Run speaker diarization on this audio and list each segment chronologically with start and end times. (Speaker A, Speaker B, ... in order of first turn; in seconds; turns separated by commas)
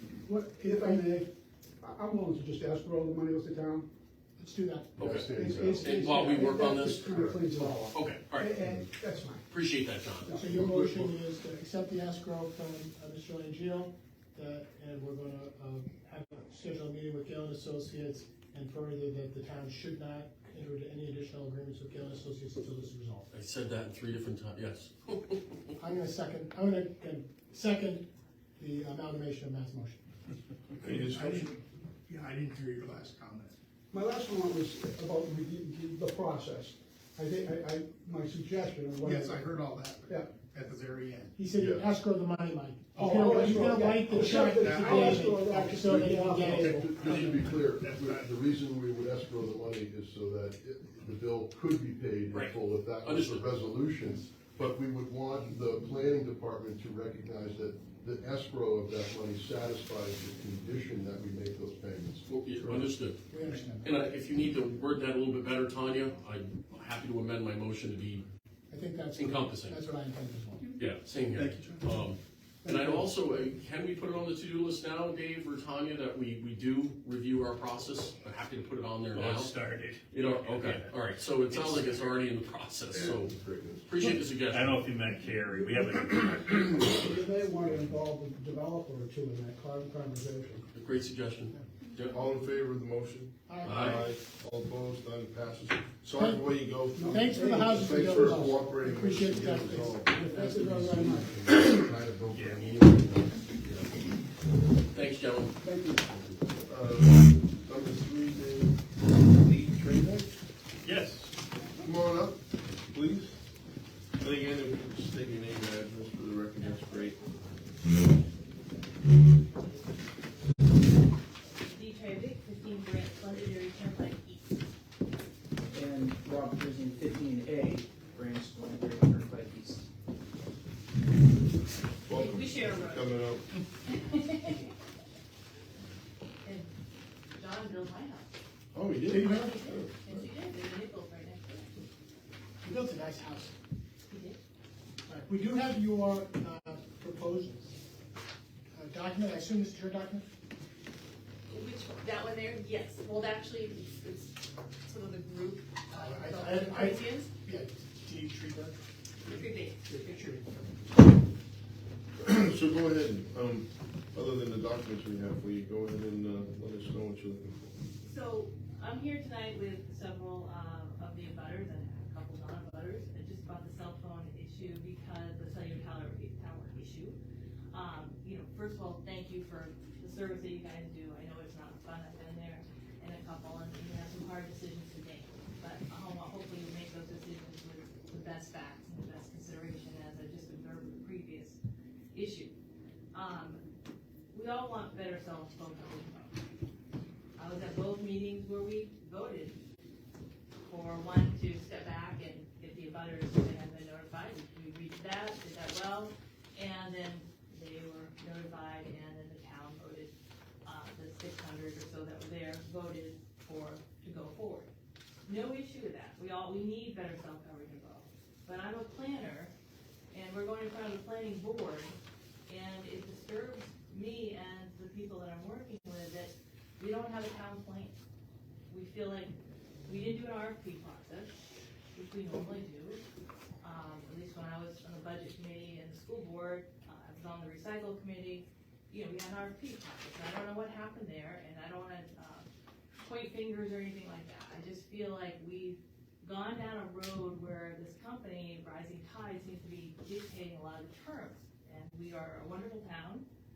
Speaker A: 0.2-1.3, Speaker B: 0.3-1.1, Speaker A: 1.8-3.9, Speaker B: 4.4-5.1, Speaker C: 5.0-7.1, Speaker D: 5.0-5.7, Speaker A: 5.1-9.4, Speaker D: 7.1-7.9, Speaker C: 7.9-8.6, Speaker C: 9.5-10.3, Speaker A: 10.2-10.6, Speaker B: 10.3-23.3, Speaker D: 10.7-11.0, Speaker C: 23.3-25.6, Speaker B: 25.8-28.1, Speaker B: 28.6-30.0, Speaker E: 30.8-31.5, Speaker F: 30.9-31.4, Speaker B: 31.0-31.5, Speaker F: 32.1-33.6, Speaker A: 33.9-39.4, Speaker F: 39.0-41.3, Speaker A: 40.1-40.3, Speaker B: 41.4-47.4, Speaker D: 41.5-41.9, Speaker A: 42.9-46.8, Speaker F: 44.1-45.8, Speaker D: 46.5-62.7, Speaker F: 46.6-48.3, Speaker C: 52.3-53.5, Speaker C: 62.3-63.2, Speaker B: 63.3-63.9, Speaker C: 63.8-68.2, Speaker B: 68.7-70.7, Speaker C: 69.2-69.8, Speaker C: 70.8-79.6, Speaker F: 71.3-71.9, Speaker G: 79.1-80.9, Speaker C: 80.1-83.3, Speaker G: 81.5-82.0, Speaker E: 82.9-83.8, Speaker C: 83.8-84.8, Speaker G: 84.4-87.0, Speaker A: 85.5-90.7, Speaker C: 90.7-92.2, Speaker E: 92.1-100.1, Speaker B: 93.5-94.1, Speaker C: 93.6-94.0, Speaker B: 96.1-101.3, Speaker A: 96.9-98.4, Speaker A: 100.2-101.3, Speaker E: 101.4-102.3, Speaker D: 101.7-102.2, Speaker G: 102.3-102.6, Speaker C: 102.3-104.0, Speaker C: 104.9-106.4, Speaker A: 105.6-106.0, Speaker E: 106.6-110.3, Speaker G: 110.8-111.3, Speaker E: 111.8-113.4, Speaker E: 114.2-117.2, Speaker H: 116.6-118.2, Speaker H: 118.8-120.0, Speaker H: 121.6-124.7, Speaker I: 125.7-129.9, Speaker E: 132.1-133.4, Speaker H: 132.1-133.2, Speaker H: 133.9-134.7, Speaker H: 136.4-136.7, Speaker H: 137.3-138.3, Speaker E: 138.7-140.2, Speaker B: 139.1-139.5, Speaker H: 139.1-141.8, Speaker B: 142.6-143.5, Speaker H: 144.1-144.4, Speaker B: 145.0-147.7, Speaker B: 148.7-150.3, Speaker H: 151.5-157.3, Speaker B: 155.9-158.8, Speaker H: 159.2-159.9, Speaker B: 159.8-160.4, Speaker E: 162.2-167.7, Speaker H: 168.0-177.2, Speaker H: 177.7-191.6, Speaker H: 192.1-192.5, Speaker H: 193.1-193.6, Speaker H: 194.3-196.3, Speaker H: 197.4-199.6, Speaker H: 200.6-210.1, Speaker H: 210.6-214.7, Speaker H: 215.2-219.5, Speaker H: 220.1-227.9, Speaker H: 228.7-229.3, Speaker H: 229.8-231.4, Speaker H: 231.9-233.0, Speaker H: 233.6-242.5, Speaker H: 243.0-253.3